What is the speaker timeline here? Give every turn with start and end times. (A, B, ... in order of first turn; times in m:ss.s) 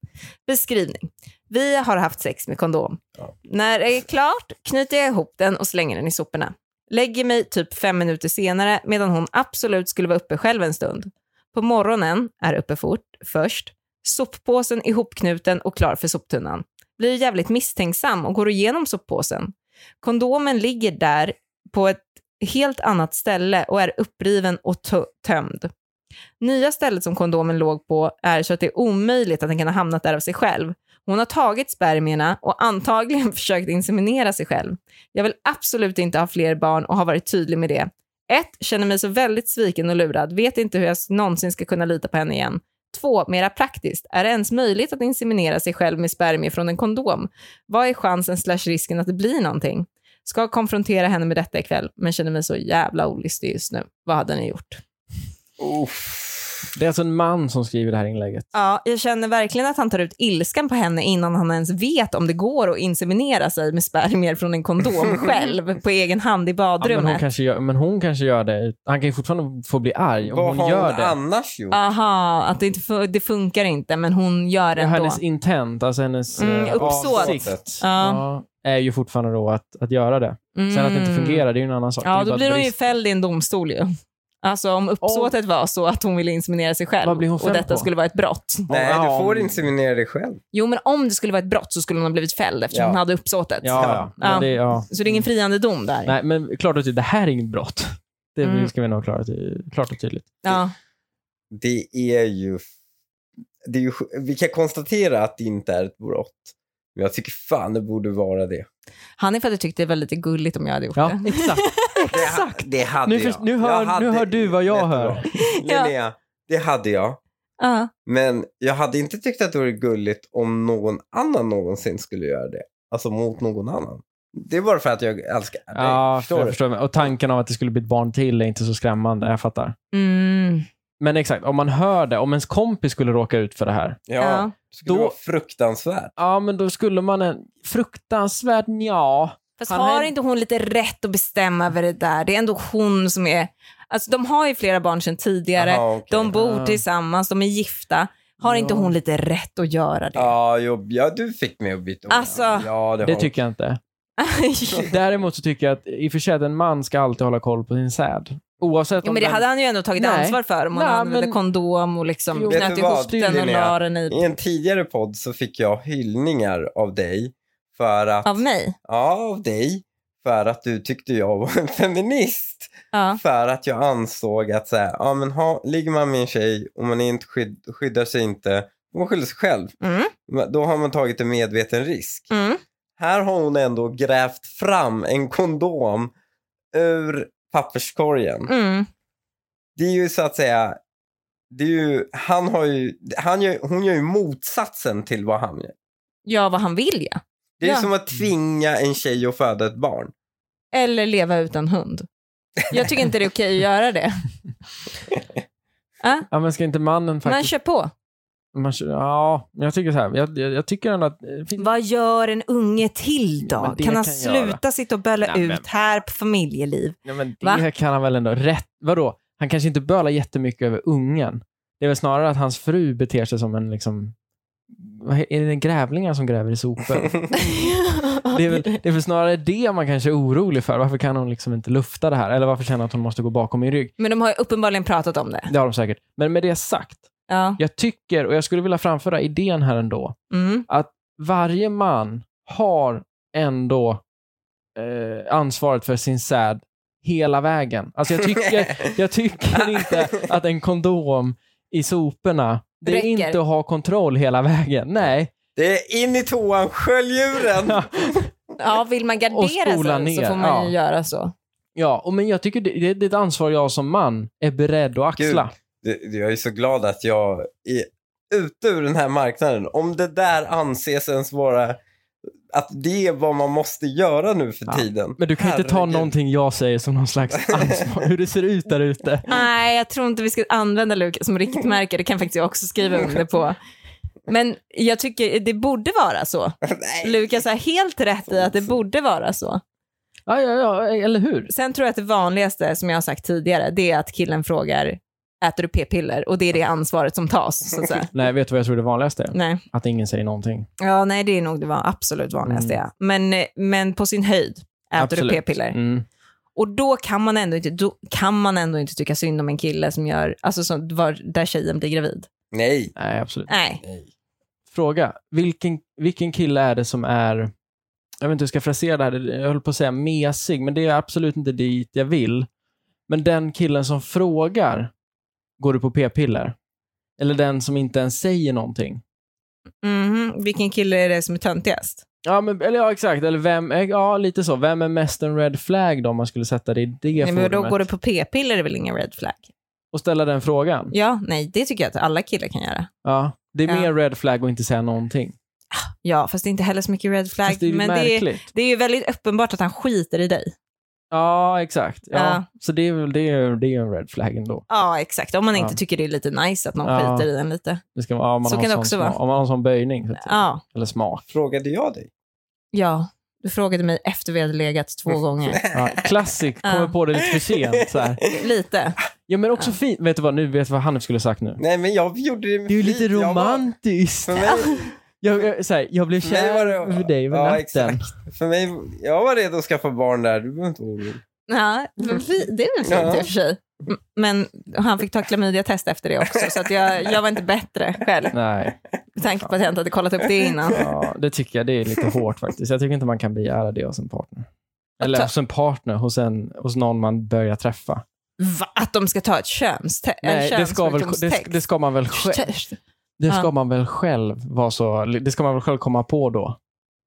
0:00.5-0:25.7 A
0:26.4-0:54.8 A
0:55.6-0:56.7 B
0:56.8-0:58.5 C
0:58.5-1:07.2 A
1:06.8-1:11.2 C
1:10.2-1:11.8 B
1:11.7-1:15.2 A
1:14.8-1:22.7 C
1:16.4-1:18.2 A
1:16.4-1:17.6 B
1:20.6-1:21.4 A
1:22.0-1:23.9 A
1:24.4-1:28.7 A
1:25.0-1:25.3 C
1:27.0-1:27.9 C
1:28.7-1:29.7 C
1:28.7-1:30.4 B
1:30.5-1:36.2 A
1:32.7-1:33.0 B
1:33.6-1:34.9 C
1:33.7-1:34.5 B
1:36.1-1:40.4 C
1:38.4-1:38.7 A
1:40.4-1:40.7 A
1:41.5-1:42.6 B
1:43.6-1:48.7 B
1:49.2-1:52.7 A
1:51.0-1:51.7 C
1:52.1-1:57.2 B
1:53.1-1:55.2 C
1:55.4-1:55.9 A
1:57.6-1:57.9 A
1:58.1-2:06.6 B
2:05.7-2:09.8 C
2:09.9-2:10.7 A
2:11.0-2:14.0 C
2:14.1-2:16.1 B
2:14.2-2:14.5 A
2:14.8-2:15.1 C
2:16.2-2:20.1 C
2:19.6-2:30.3 A
2:25.6-2:26.4 B
2:26.3-2:26.8 C
2:28.4-2:28.9 C
2:30.2-2:33.3 B
2:32.1-2:32.7 A
2:33.0-2:33.8 C
2:34.2-2:34.9 A
2:34.8-2:39.4 C
2:39.0-2:44.3 A
2:40.0-2:41.4 C
2:42.3-2:43.4 C
2:42.5-2:59.7 B
2:48.2-2:48.8 A
2:52.9-2:53.2 A
2:59.8-3:00.1 A
3:00.3-3:02.3 B
3:02.3-3:02.6 A
3:03.0-3:06.1 B
3:06.7-3:08.5 B
3:08.5-3:08.9 A
3:09.8-3:10.8 B
3:11.5-3:15.8 B
3:16.3-3:17.9 A
3:17.6-3:20.1 B
3:20.7-3:22.1 A
3:22.7-3:24.2 A
3:26.0-3:26.3 A
3:26.3-3:27.5 C
3:27.2-3:27.9 A
3:28.5-3:31.7 C
3:31.6-3:37.7 A
3:33.4-3:34.6 C
3:35.2-3:35.7 C
3:37.1-3:44.2 C
3:44.7-3:47.7 C
3:47.4-3:48.8 A
3:48.3-3:53.9 C
3:54.0-3:55.5 A
3:55.5-4:00.2 C
3:57.3-3:57.6 A
4:00.3-4:00.7 A
4:00.7-4:04.0 C
4:04.8-4:15.3 C
4:08.2-4:09.0 B
4:09.5-4:10.3 B
4:12.9-4:13.4 A
4:15.6-4:18.6 B
4:17.6-4:18.3 C
4:18.6-4:21.3 A
4:19.3-4:20.7 C
4:21.8-4:25.5 C
4:25.2-4:31.8 B
4:32.5-4:36.1 B
4:34.7-4:39.3 C
4:37.4-4:37.9 B
4:39.3-4:43.6 A
4:43.0-4:43.2 B
4:44.3-4:49.6 A
4:46.6-4:47.4 B
4:48.3-4:48.7 B
4:50.3-4:51.5 C
4:51.5-4:58.1 A
4:58.1-5:00.7 C
4:59.3-4:59.6 A
5:00.8-5:05.8 A
5:02.4-5:02.8 C
5:05.0-5:06.1 C
5:06.6-5:12.3 A
5:12.5-5:12.9 B
5:13.0-5:13.5 C
5:13.5-5:13.8 A
5:13.8-5:14.1 B
5:14.7-5:17.5 C
5:18.2-5:22.5 C
5:23.1-5:24.9 C
5:25.6-5:26.6 C
5:27.2-5:29.0 C
5:29.8-5:32.0 A
5:32.2-5:37.8 C
5:37.2-5:39.5 A
5:39.9-5:40.9 C
5:40.9-5:42.9 A
5:43.0-5:45.4 C
5:45.7-5:50.5 A
5:47.5-5:48.4 C
5:51.1-5:54.6 C
5:52.1-5:52.4 A
5:54.7-5:57.8 A
5:56.8-5:57.3 C
5:58.0-6:01.3 C
5:58.4-5:59.2 A
6:00.2-6:00.6 A
6:01.3-6:02.1 B
6:02.7-6:05.6 A
6:05.4-6:06.1 B
6:05.7-6:08.2 C
6:06.6-6:06.9 A
6:07.2-6:08.4 B
6:08.3-6:09.0 A
6:09.3-6:11.6 C
6:11.6-6:13.6 B
6:12.7-6:14.6 C
6:14.2-6:14.9 B
6:14.5-6:14.9 A
6:15.2-6:18.1 C
6:16.2-6:21.2 B
6:21.5-6:28.4 A
6:22.8-6:23.3 B
6:26.3-6:27.2 B
6:28.3-6:28.8 C
6:29.2-6:30.9 A
6:30.4-6:30.7 B
6:30.7-6:34.5 C
6:35.0-6:38.0 C
6:35.0-6:35.3 A
6:38.4-6:41.6 A
6:40.2-6:42.4 C
6:42.1-6:42.8 A
6:43.2-6:46.6 C